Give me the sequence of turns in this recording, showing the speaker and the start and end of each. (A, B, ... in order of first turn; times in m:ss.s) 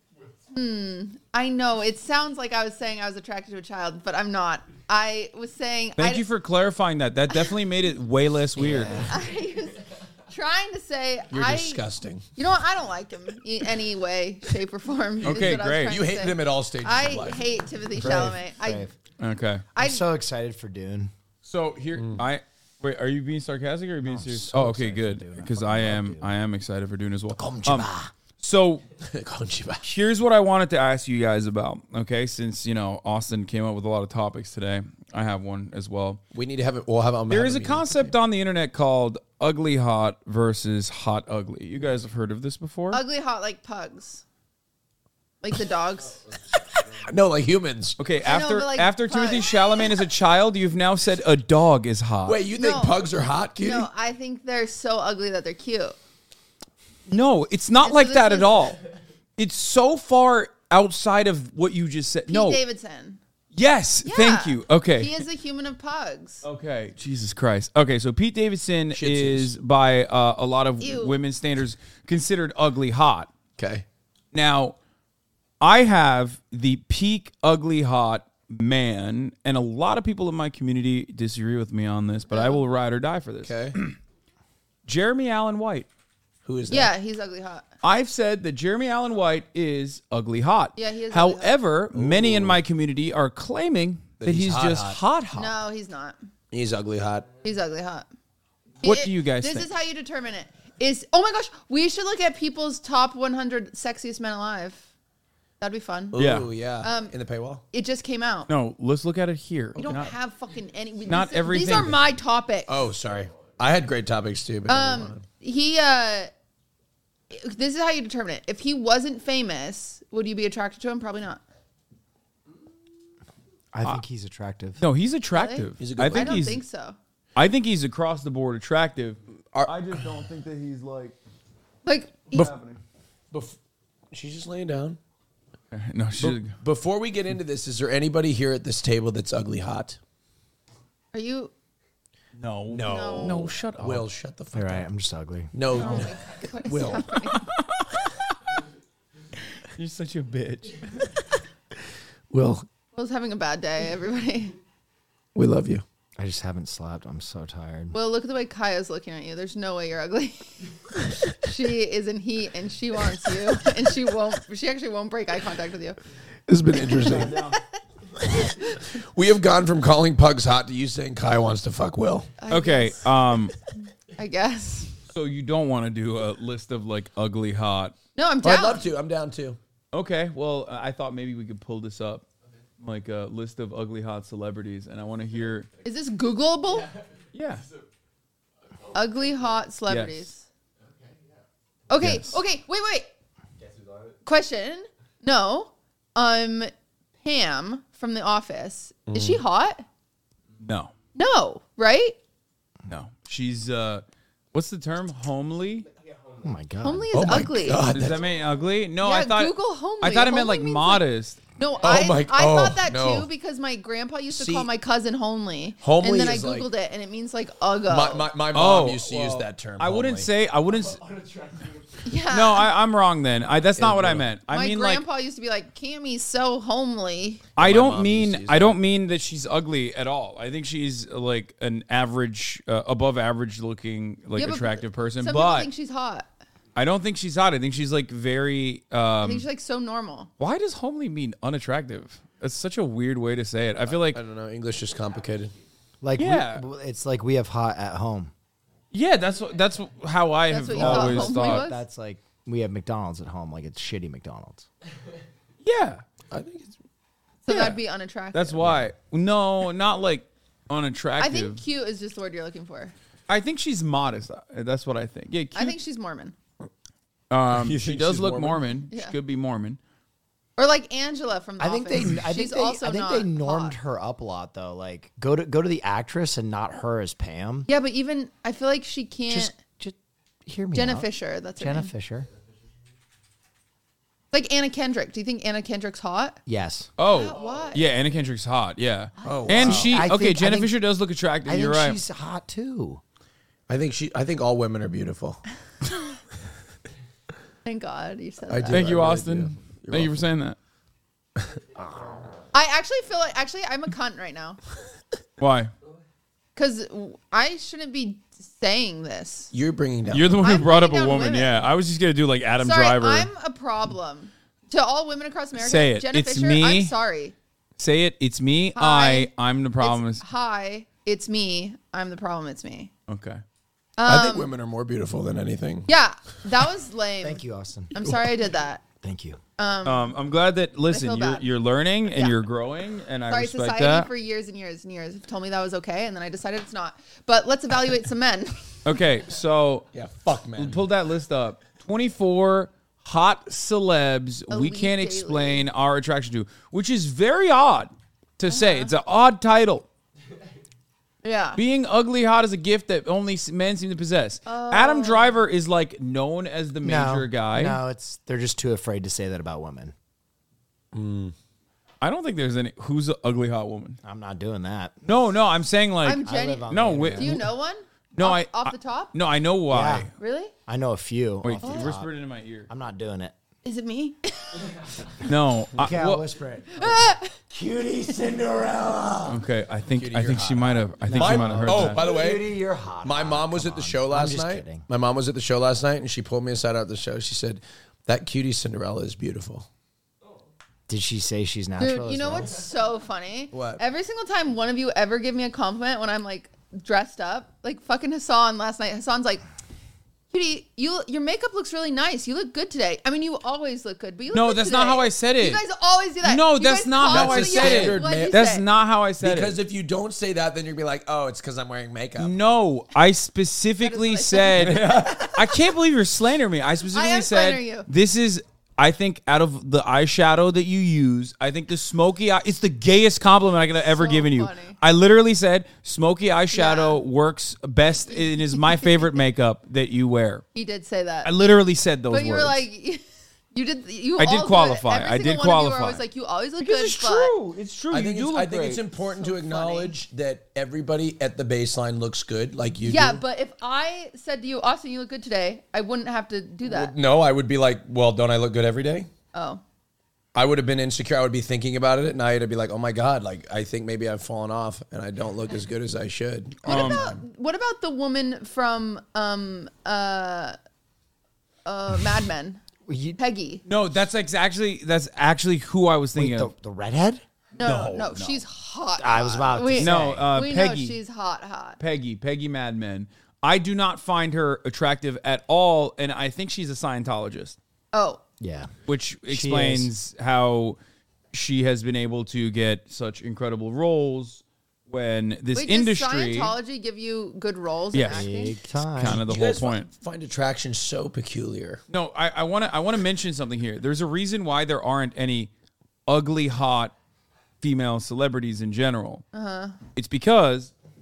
0:00.5-0:06.2 A
0:06.0-0:09.1 B
0:08.6-0:09.2 C
0:09.0-0:11.8 A
0:11.3-0:12.2 D
0:12.4-0:18.9 A
0:15.2-0:18.4 D
0:15.2-0:16.0 B
0:18.0-0:18.9 C
0:19.2-0:19.7 B
0:19.8-0:20.0 A
0:19.8-0:21.1 C
0:21.4-0:28.8 B
0:24.0-0:26.3 C
0:27.3-0:28.1 C
0:29.0-0:29.9 D
0:29.8-0:36.2 B
0:36.3-0:38.2 D
0:37.3-0:43.0 B
0:42.9-0:44.2 A
0:45.4-0:46.2 A
0:46.2-0:47.1 E
0:46.9-0:48.0 D
0:48.0-0:52.4 B
0:48.2-0:49.8 A
0:52.3-0:53.9 D
0:52.6-0:53.1 A
0:53.6-0:56.0 A
0:57.1-0:58.8 B
0:57.8-0:58.7 A
0:59.4-1:02.6 B
1:02.3-1:03.2 A
1:03.5-1:05.2 B
1:04.0-1:06.4 A
1:06.4-1:13.3 B
1:08.9-1:09.5 D
1:10.8-1:11.2 A
1:13.6-1:13.8 D
1:14.3-1:14.8 B
1:15.6-1:24.0 B
1:22.3-1:22.6 A
1:23.4-1:23.8 D
1:24.9-1:25.9 B
1:26.4-1:26.9 D
1:26.7-1:27.7 A
1:27.8-1:35.6 B
1:30.8-1:31.6 A
1:31.9-1:32.6 D
1:34.2-1:35.0 D
1:35.4-1:36.2 A
1:36.5-1:37.3 D
1:37.4-1:38.1 A
1:38.8-1:44.9 A
1:38.8-1:39.7 B
1:45.6-1:46.2 A
1:46.1-1:47.6 D
1:46.1-1:46.5 B
1:46.8-1:47.1 A
1:47.7-1:48.5 A
1:48.5-1:50.2 B
1:49.8-1:52.8 A
1:51.1-1:52.0 B
1:52.7-1:55.2 D
1:53.0-1:53.6 E
1:54.7-1:56.3 A
1:57.3-2:01.4 A
2:03.7-2:04.8 C
2:04.8-2:06.6 B
2:05.3-2:07.0 A
2:05.8-2:06.5 D
2:07.4-2:11.2 B
2:11.8-2:12.5 A
2:12.3-2:12.8 B
2:13.3-2:13.6 D
2:14.1-2:15.0 D
2:15.7-2:16.6 B
2:16.2-2:20.0 D
2:21.1-2:21.5 A
2:22.4-2:24.0 B
2:22.7-2:24.9 D
2:22.9-2:23.5 A
2:24.5-2:26.0 C
2:25.5-2:27.2 D
2:25.7-2:27.5 A
2:27.3-2:28.4 B
2:29.6-2:31.1 B
2:32.3-2:32.7 D
2:32.9-2:34.6 A
2:35.4-2:35.8 D
2:36.2-2:38.0 C
2:37.9-2:46.0 A
2:46.5-2:47.4 D
2:46.8-2:48.8 A
2:47.0-2:47.6 B
2:48.8-2:52.3 D
2:52.4-2:53.1 A
2:52.5-2:53.6 B
2:54.2-2:54.9 A
2:55.1-2:58.0 B
2:58.2-2:58.9 A
2:58.4-2:59.6 D
2:59.9-3:02.3 B
3:02.8-3:05.7 B
3:05.8-3:06.9 A
3:06.7-3:07.9 E
3:07.3-3:07.6 B
3:08.6-3:09.6 E
3:08.9-3:10.5 A
3:09.9-3:10.3 B
3:10.8-3:11.4 E
3:11.9-3:13.1 A
3:12.0-3:12.4 B
3:13.6-3:14.2 E
3:14.2-3:16.7 A
3:17.2-3:19.9 A
3:19.1-3:19.4 D
3:20.6-3:20.9 B
3:21.2-3:22.2 A
3:22.9-3:25.9 B
3:25.8-3:26.8 E
3:26.4-3:27.4 C
3:26.8-3:27.9 A
3:27.1-3:28.2 D
3:27.9-3:31.4 B
3:29.0-3:31.1 A
3:31.6-3:38.3 A
3:31.8-3:33.3 D
3:34.3-3:34.7 D
3:35.8-3:36.7 D
3:37.9-3:40.3 D
3:38.5-3:41.0 B
3:40.7-3:42.2 E
3:42.0-3:42.7 A
3:42.3-3:45.0 B
3:43.8-3:44.3 D
3:44.5-3:47.5 A
3:47.6-3:48.8 D
3:47.6-3:55.7 B
3:54.4-3:56.3 A
3:56.8-3:59.5 B
3:59.2-4:00.3 A
4:00.4-4:04.2 B
4:03.9-4:05.5 D
4:05.0-4:05.6 E
4:06.0-4:08.3 C
4:06.2-4:06.7 B
4:08.9-4:11.7 B
4:10.5-4:11.8 A
4:10.7-4:14.7 C
4:15.6-4:16.0 B
4:16.3-4:16.7 D
4:17.5-4:18.7 A
4:17.5-4:17.8 B
4:18.3-4:21.6 B
4:21.2-4:22.9 A
4:23.3-4:25.8 B
4:25.6-4:26.4 A
4:27.3-4:29.8 B
4:27.5-4:28.7 D
4:28.9-4:29.2 A
4:30.6-4:33.8 A
4:31.6-4:37.7 C
4:37.7-4:39.5 A
4:39.3-4:42.3 C
4:40.7-4:41.9 A
4:42.3-4:42.6 E
4:44.3-4:46.4 A
4:46.5-4:46.9 C
4:47.0-4:52.0 B
4:47.1-4:47.8 A
4:47.3-4:47.9 E
4:49.2-4:49.7 A
4:49.2-4:50.0 D
4:49.6-4:50.8 C
4:51.4-4:53.0 C
4:53.7-4:55.4 D
4:57.6-4:58.9 A
4:58.5-5:00.2 D
4:58.7-5:00.6 B
5:01.8-5:02.2 E
5:02.5-5:04.6 A
5:05.4-5:05.7 B
5:06.6-5:09.5 A
5:09.5-5:10.4 D
5:10.1-5:13.3 B
5:10.4-5:11.6 A
5:12.6-5:17.4 A
5:15.6-5:17.0 B
5:17.8-5:20.2 B
5:18.8-5:22.9 A
5:23.1-5:23.4 B
5:24.0-5:24.5 A
5:24.1-5:25.9 D
5:25.9-5:27.4 A
5:27.2-5:28.0 C
5:27.9-5:28.8 A
5:29.0-5:29.4 C
5:29.6-5:30.2 A
5:29.8-5:34.1 B
5:30.9-5:31.5 A
5:32.1-5:32.4 A
5:33.3-5:38.7 A
5:38.8-5:39.9 B
5:39.9-5:40.8 D
5:40.6-5:49.9 B
5:44.5-5:45.7 A
5:48.5-5:48.9 A
5:51.2-5:51.6 A
5:51.6-5:57.8 B
5:54.5-5:55.4 A
5:56.8-5:59.9 C
6:00.9-6:01.4 D
6:02.0-6:04.0 B
6:04.0-6:04.9 C
6:05.0-6:07.5 B
6:06.0-6:09.1 A
6:06.2-6:07.5 C
6:08.1-6:10.1 B
6:09.7-6:10.1 C
6:10.2-6:10.5 A
6:10.7-6:12.1 C
6:11.4-6:12.7 B
6:11.6-6:11.9 A
6:12.7-6:13.4 C
6:13.6-6:14.7 A
6:15.2-6:16.3 B
6:15.8-6:19.4 C
6:16.8-6:17.3 A
6:19.2-6:22.1 B
6:20.0-6:22.5 D
6:21.1-6:24.9 C
6:23.0-6:29.7 D
6:30.9-6:32.6 C
6:31.8-6:39.4 A
6:33.5-6:33.8 D
6:40.3-6:48.7 A
6:44.3-6:45.6 B
6:46.2-6:49.6 B
6:47.1-6:48.4 D
6:49.2-6:52.4 D
6:52.2-7:10.4 B
6:53.8-6:55.6 A
6:54.6-6:55.3 D
6:56.9-6:57.9 A
7:03.8-7:04.8 A
7:06.5-7:07.0 A
7:08.1-7:09.1 A
7:10.5-7:11.3 A
7:11.2-7:12.6 B
7:12.1-7:17.3 A
7:14.2-7:16.0 B
7:16.6-7:18.8 B
7:17.9-7:23.2 D
7:19.0-7:20.0 A
7:22.8-7:26.9 A
7:26.6-7:29.1 D
7:29.3-7:29.6 A
7:30.4-7:37.2 D
7:36.6-7:37.1 B
7:36.6-7:40.6 A
7:41.6-7:42.6 A
7:42.9-7:43.2 C
7:43.2-7:43.6 A
7:43.6-7:46.5 B
7:46.2-7:47.2 C
7:47.6-7:51.8 A
7:47.6-7:48.4 B
7:49.0-7:50.3 C
7:49.8-7:51.0 B
7:51.8-7:57.6 B
7:57.9-7:58.2 A
7:58.4-7:58.7 C
7:58.9-8:00.8 B
7:59.3-7:59.9 C
8:01.3-8:06.6 B
8:05.6-8:08.6 A
8:07.9-8:08.3 B
8:08.0-8:09.2 C
8:08.8-8:09.9 B
8:09.1-8:11.8 D
8:11.9-8:15.5 B
8:16.1-8:16.9 B
8:17.6-8:19.2 B
8:19.3-8:19.8 A
8:19.9-8:20.7 B